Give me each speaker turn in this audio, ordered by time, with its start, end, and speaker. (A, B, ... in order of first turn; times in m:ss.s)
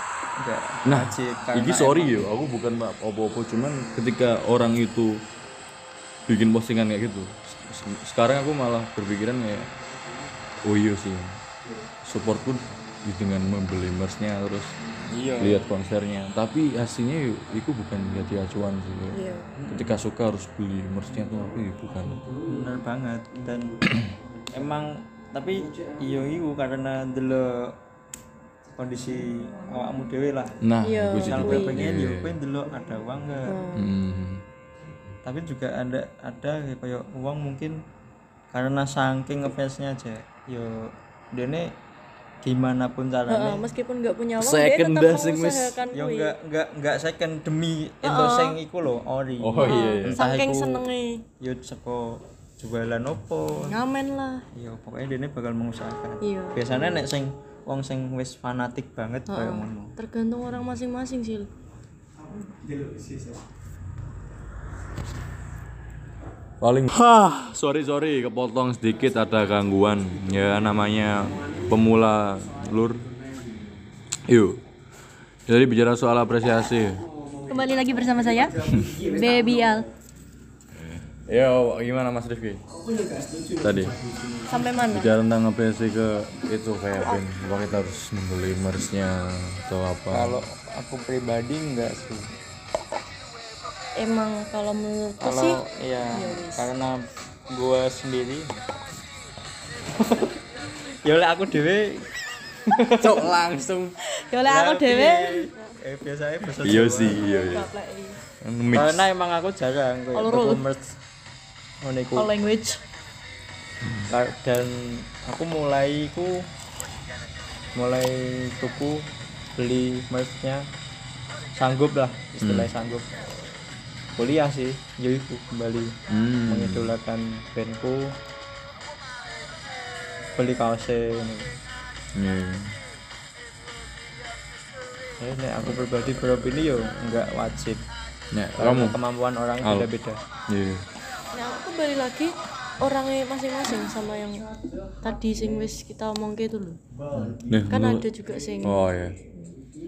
0:00.4-0:02.3 A
0:00.8-0:05.2 B
0:06.3-0:09.7 B
0:10.6-0:11.4 B
0:12.0-0:14.8 B
0:15.1-0:15.7 A
0:15.4-0:22.2 B
0:19.1-0:19.5 C
0:19.6-0:19.9 A
0:22.4-0:23.8 A
0:24.5-0:27.8 A
0:28.8-0:30.6 A
0:30.6-0:32.4 B
0:30.8-0:31.8 C
0:31.2-0:33.6 A
0:33.5-0:33.9 C
0:33.7-0:34.4 B
0:35.2-0:37.8 A
0:38.5-0:41.8 A
0:42.4-0:43.6 A
0:43.3-0:46.3 C
0:44.4-0:45.8 B
0:45.9-0:50.8 A
0:48.0-0:48.6 C
0:49.4-0:50.2 B
0:49.6-0:51.2 C
0:51.4-0:53.8 A
0:53.6-0:54.4 C
0:54.5-0:59.9 A
0:56.2-0:57.0 C
0:59.3-1:01.5 C
1:06.6-1:13.1 B
1:14.2-1:14.6 B
1:15.5-1:17.0 B
1:17.5-1:19.9 C
1:20.8-1:22.6 B
1:23.5-1:24.0 B
1:24.5-1:25.1 C
1:24.8-1:30.4 B
1:27.0-1:27.2 C
1:30.1-1:32.3 A
1:34.0-1:35.6 C
1:35.2-1:38.5 A
1:36.1-1:36.7 C
1:40.0-1:40.3 A
1:41.0-1:42.1 A
1:42.6-1:43.4 A
1:42.8-1:44.0 B
1:44.1-1:45.5 C
1:44.5-1:47.3 A
1:46.5-1:47.7 B
1:47.0-1:48.2 C
1:48.4-1:49.1 B
1:48.7-1:51.0 A
1:50.1-1:50.6 C
1:51.8-1:52.3 A
1:52.1-1:52.8 C
1:54.1-1:56.4 A
1:57.7-2:00.7 A
2:01.5-2:03.4 A
2:02.4-2:02.7 B
2:04.2-2:08.2 A
2:06.1-2:06.9 B
2:10.4-2:11.5 A
2:12.1-2:12.7 B
2:15.2-2:17.8 A
2:18.3-2:19.0 B
2:18.6-2:20.2 A
2:19.6-2:19.9 B
2:20.5-2:20.8 B
2:21.3-2:24.5 C
2:25.0-2:26.8 C
2:27.2-2:28.1 B
2:27.7-2:29.6 C
2:28.6-2:29.2 B